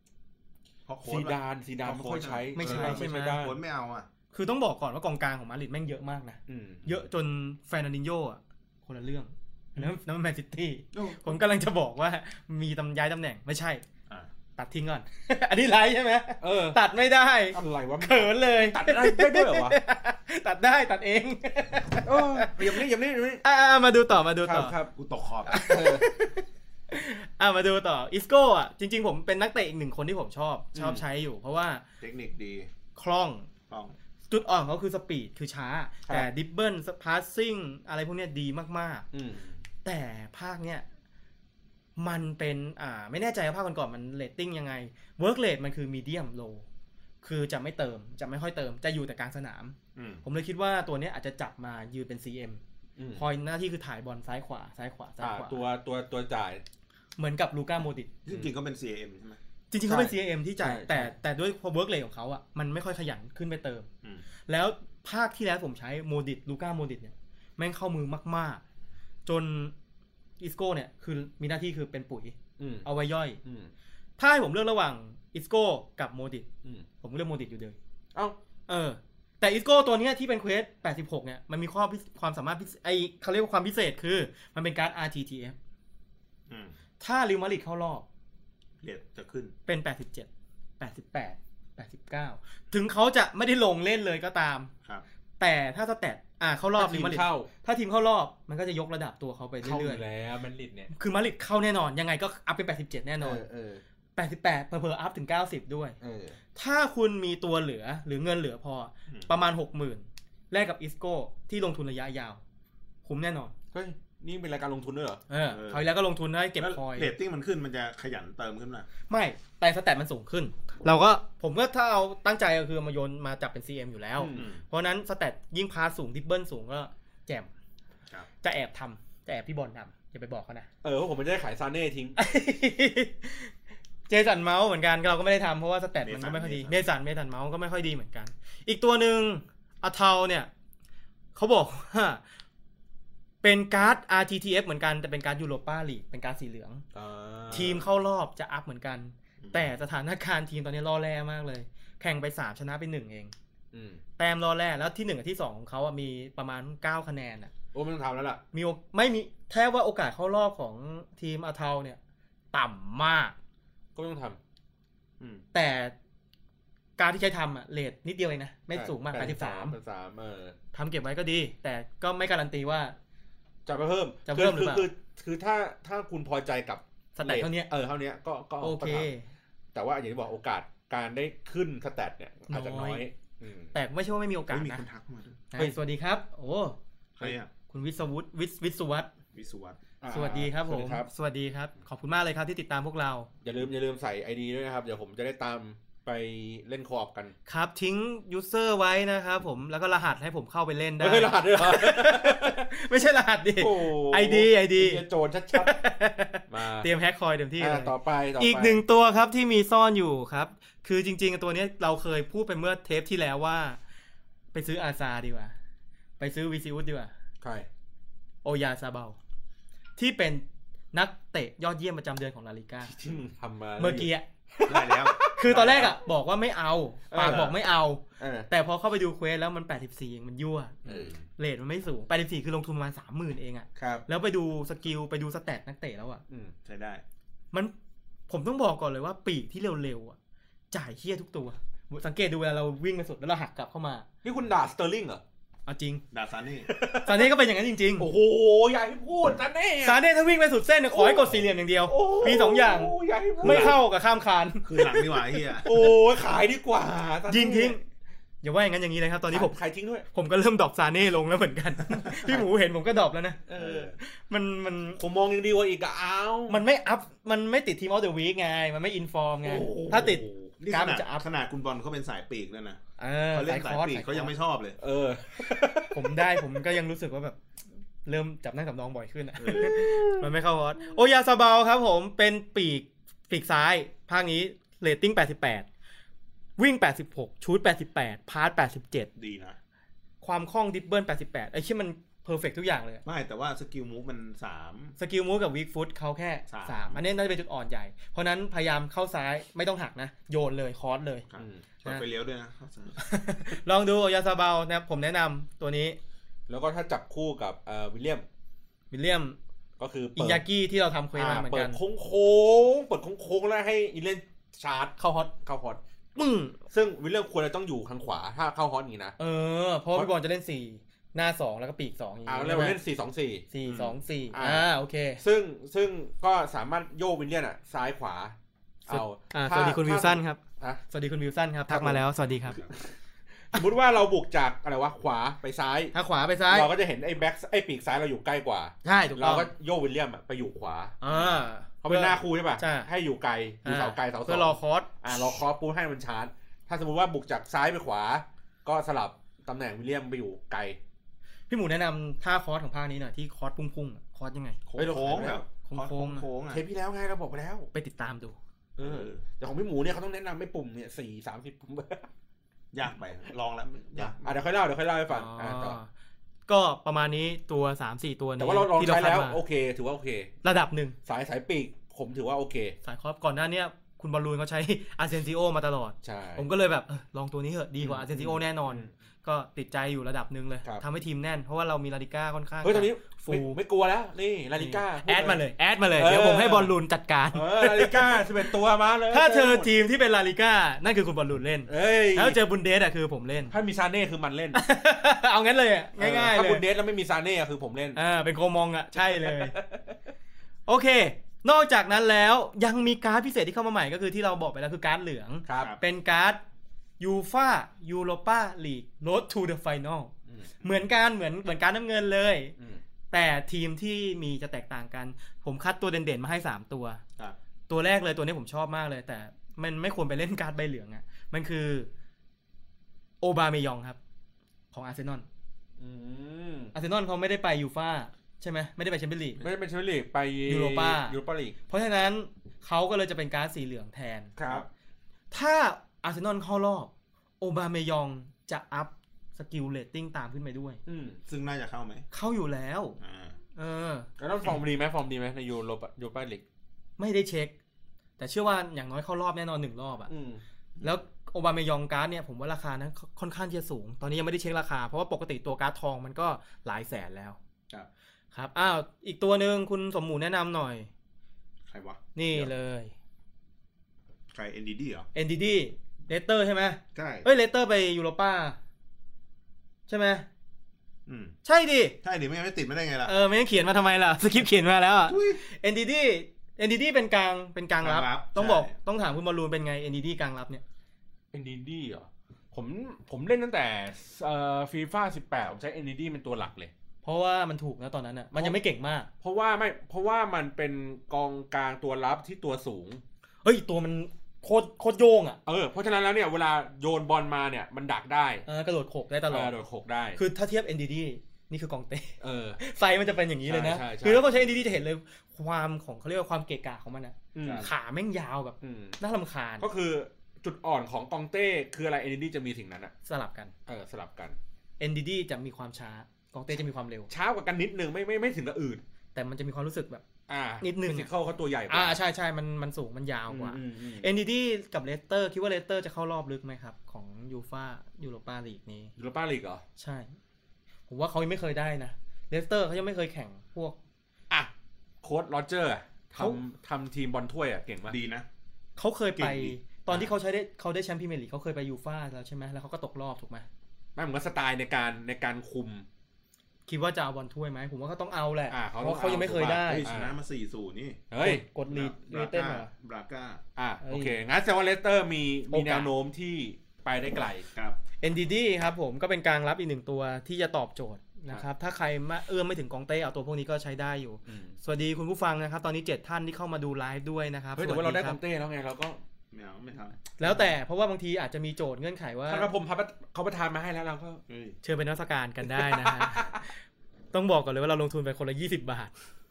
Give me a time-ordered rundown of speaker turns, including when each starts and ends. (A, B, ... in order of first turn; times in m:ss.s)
0:00.8-0:04.1 A
0:01.0-0:03.6 B
0:02.6-0:03.4 C
0:04.3-0:13.8 C
0:06.5-0:07.0 B
0:10.9-0:11.4 B
0:14.6-0:22.8 C
0:16.4-0:16.8 B
0:17.5-0:19.8 B
0:22.0-0:23.4 B
0:23.4-0:24.7 C
0:24.4-0:24.9 B
0:24.9-0:25.7 A
0:25.5-0:31.8 C
0:25.5-0:26.1 B
0:30.7-0:31.0 B
0:32.0-0:32.7 A
0:32.9-0:33.5 C
0:33.7-0:34.0 A
0:34.3-0:39.1 C
0:39.1-0:39.6 B
0:39.8-0:40.8 C
0:42.0-0:46.6 C
0:47.2-0:52.6 C
0:50.0-0:50.2 A
0:53.0-0:53.2 B
0:53.2-0:55.6 C
0:55.2-0:56.6 B
0:57.2-0:58.1 C
0:58.2-0:59.4 A
0:59.7-1:03.9 C
0:59.9-1:01.1 B
1:04.5-1:08.6 C
1:09.2-1:09.7 C
1:10.4-1:13.4 C
1:12.6-1:12.9 B
1:13.4-1:13.7 B
1:14.2-1:16.5 C
1:17.0-1:17.8 C
1:18.7-1:25.6 C
1:26.5-1:26.8 A
1:27.0-1:28.0 C
1:28.8-1:29.5 A
1:29.7-1:30.3 C
1:30.8-1:34.7 C
1:35.4-1:40.0 C
1:36.8-1:37.5 B
1:39.6-1:40.9 B
1:40.9-1:43.4 C
1:43.2-1:43.8 B
1:44.2-1:46.0 C
1:46.0-1:46.4 B
1:46.5-1:52.4 C
1:53.0-1:53.5 C
1:53.7-1:55.2 B
1:55.3-1:57.1 C
1:55.5-1:55.9 A
1:56.6-1:58.9 A
1:59.1-2:07.5 C
2:04.2-2:04.5 B
2:04.4-2:04.6 A
2:08.4-2:10.7 C
2:10.8-2:12.2 B
2:12.2-2:13.5 C
2:14.1-2:20.5 C
2:16.0-2:16.8 A
2:21.3-2:22.2 C
2:23.4-2:26.8 C
2:26.9-2:27.8 B
2:27.5-2:33.3 C
2:29.4-2:29.7 A
2:33.7-2:34.0 B
2:34.2-2:37.5 C
2:37.7-2:38.4 B
2:38.5-2:42.0 C
2:42.5-2:43.3 C
2:44.0-2:44.4 B
2:45.5-2:45.9 C
2:47.0-2:49.8 C
2:48.7-2:50.6 B
2:50.7-2:53.0 C
2:53.6-2:59.1 B
2:54.3-2:54.9 C
2:57.2-2:57.7 C
2:58.6-2:59.2 C
2:59.7-3:03.7 B
3:02.5-3:03.1 C
3:03.7-3:04.8 C
3:04.5-3:05.4 A
3:05.5-3:06.8 C
3:07.2-3:07.5 A
3:07.7-3:09.1 C
3:09.3-3:09.8 A
3:10.0-3:11.1 B
3:10.1-3:13.3 C
3:13.4-3:17.3 B
3:17.5-3:33.8 C
3:21.0-3:22.6 B
3:23.6-3:25.8 B
3:26.5-3:26.9 B
3:27.6-3:28.8 B
3:34.5-3:35.5 C
3:36.2-3:37.1 C
3:37.4-3:37.7 B
3:38.4-3:39.2 C
3:40.0-3:42.9 C
3:42.8-3:45.7 B
3:43.8-3:44.2 C
3:44.7-3:46.0 A
3:45.3-3:56.2 C
3:47.1-3:47.6 B
3:48.2-3:48.5 B
3:50.8-3:51.1 A
3:50.8-3:51.2 B
3:53.8-3:54.0 B
3:56.6-3:57.0 A
3:58.3-4:00.2 C
4:00.7-4:04.1 C
4:04.2-4:05.2 B
4:05.6-4:06.0 C
4:06.1-4:06.7 A
4:06.6-4:07.3 B
4:07.0-4:08.1 C
4:08.0-4:10.0 B
4:09.8-4:15.1 C
4:10.9-4:13.8 B
4:13.4-4:13.8 A
4:14.6-4:15.7 A
4:15.6-4:17.8 B
4:17.3-4:17.8 C
4:18.4-4:19.6 C
4:19.3-4:20.0 B
4:20.1-4:25.0 C
4:23.5-4:23.9 B
4:23.6-4:23.9 A
4:25.0-4:26.6 B
4:26.5-4:31.2 C
4:29.4-4:30.2 B
4:29.8-4:32.8 A
4:33.0-4:34.3 C
4:33.3-4:34.8 A
4:34.8-4:36.4 B
4:35.9-4:37.4 C
4:38.0-4:45.6 C
4:39.4-4:40.0 A
4:39.4-4:40.2 B
4:46.6-4:49.1 C
4:49.2-4:49.6 A
4:50.2-4:53.0 C
4:53.0-4:54.9 A
4:55.0-5:01.2 C
4:56.5-4:57.0 A
5:01.3-5:03.0 A
5:01.4-5:01.8 B
5:03.0-5:06.0 C
5:06.5-5:08.2 B
5:08.9-5:09.4 C
5:09.8-5:10.4 B
5:10.2-5:11.8 C
5:11.1-5:15.8 B
5:15.0-5:15.3 C
5:16.2-5:16.6 C
5:16.7-5:19.2 B
5:19.2-5:22.8 C
5:22.2-5:23.4 B
5:23.5-5:25.2 C
5:23.6-5:24.0 A
5:24.3-5:28.3 B
5:28.9-5:32.6 C
5:28.9-5:30.8 B
5:31.7-5:32.0 B
5:32.4-5:32.7 A
5:33.5-5:35.9 B
5:35.9-5:36.7 C
5:36.5-5:50.8 B
5:38.8-5:39.5 C
5:41.0-5:42.9 C
5:43.6-5:44.9 C
5:51.5-5:54.6 C
5:54.7-5:56.6 A
5:54.8-5:55.4 B
5:55.2-5:56.2 C
5:56.5-5:57.7 B
5:57.7-5:58.4 C
5:58.8-6:02.1 B
5:58.8-5:59.2 A
6:02.7-6:04.4 A
6:04.0-6:05.8 B
6:05.1-6:05.9 C
6:06.5-6:09.4 C
6:08.4-6:10.3 B
6:10.4-6:11.0 C
6:11.0-6:12.8 B
6:12.8-6:23.6 C
6:16.0-6:16.5 B
6:17.8-6:18.9 B
6:22.6-6:25.4 B
6:24.6-6:28.5 C
6:26.0-6:26.7 B
6:27.3-6:29.7 B
6:29.1-6:33.5 C
6:31.7-6:32.4 B
6:33.5-6:34.6 B
6:34.5-6:36.6 C
6:36.0-6:38.0 B
6:38.0-6:39.6 C
6:39.0-6:40.0 B
6:40.7-6:46.4 C
6:45.5-6:45.7 B
6:47.0-6:50.1 C
6:50.6-6:52.5 C
6:53.1-6:57.0 C
6:57.7-7:01.9 C
7:03.2-7:04.0 C
7:04.7-7:05.2 C
7:05.8-7:06.7 B
7:06.7-7:09.4 C
7:09.4-7:11.5 B
7:10.5-7:11.2 C
7:11.7-7:14.3 C
7:14.4-7:14.7 B
7:15.3-7:20.8 C
7:20.8-7:21.2 B
7:21.3-7:22.0 A
7:22.1-7:23.0 C
7:23.0-7:23.4 A
7:23.6-7:24.1 C
7:24.2-7:26.4 B
7:27.0-7:27.5 C
7:28.2-7:30.1 C
7:30.1-7:30.4 B
7:30.8-7:37.4 C
7:38.3-7:40.9 C
7:41.7-7:42.5 A
7:42.1-7:42.9 C
7:44.3-7:45.1 A
7:45.1-7:48.6 C
7:46.9-7:47.3 A
7:49.9-7:50.3 C
7:51.1-7:51.3 A
7:51.4-7:52.0 C
7:52.0-7:53.1 A
7:53.0-8:00.6 C
7:55.1-7:55.4 A
7:57.8-7:58.7 A
8:01.3-8:06.7 B
8:07.0-8:09.1 C
8:09.2-8:13.0 B
8:13.4-8:15.4 C
8:15.4-8:18.4 B
8:18.5-8:19.5 C
8:19.3-8:20.2 B
8:20.2-8:29.6 C
8:22.2-8:22.6 B
8:23.4-8:24.6 B
8:27.3-8:27.7 B
8:27.4-8:27.7 A
8:28.6-8:29.0 B
8:29.6-8:32.9 B
8:33.0-8:33.5 C
8:33.7-8:34.4 B
8:34.8-8:37.1 C
8:37.1-8:38.8 B
8:39.1-8:40.0 C
8:40.3-8:42.0 B
8:40.6-8:41.1 C
8:41.7-8:48.9 C
8:43.3-8:44.1 B
8:49.0-8:49.6 B
8:49.8-8:50.2 C
8:50.9-8:53.8 C
8:55.0-8:58.0 B
8:57.9-8:58.3 A
8:58.8-9:03.4 C
8:59.2-8:59.5 A
9:04.0-9:05.8 B
9:06.7-9:09.9 C
9:08.5-9:10.1 B
9:09.5-9:11.1 A
9:11.1-9:11.4 B
9:11.2-9:12.7 C
9:11.7-9:13.4 A
9:13.6-9:17.5 B
9:13.8-9:14.2 C
9:15.5-9:15.9 C
9:17.5-9:17.8 A
9:18.0-9:28.2 C
9:24.3-9:24.5 B
9:27.6-9:29.0 B
9:29.3-9:30.0 A
9:30.2-9:32.5 C
9:32.3-9:34.2 B
9:34.3-9:34.6 A
9:34.6-9:36.5 C
9:35.5-9:36.4 B
9:37.1-9:38.9 C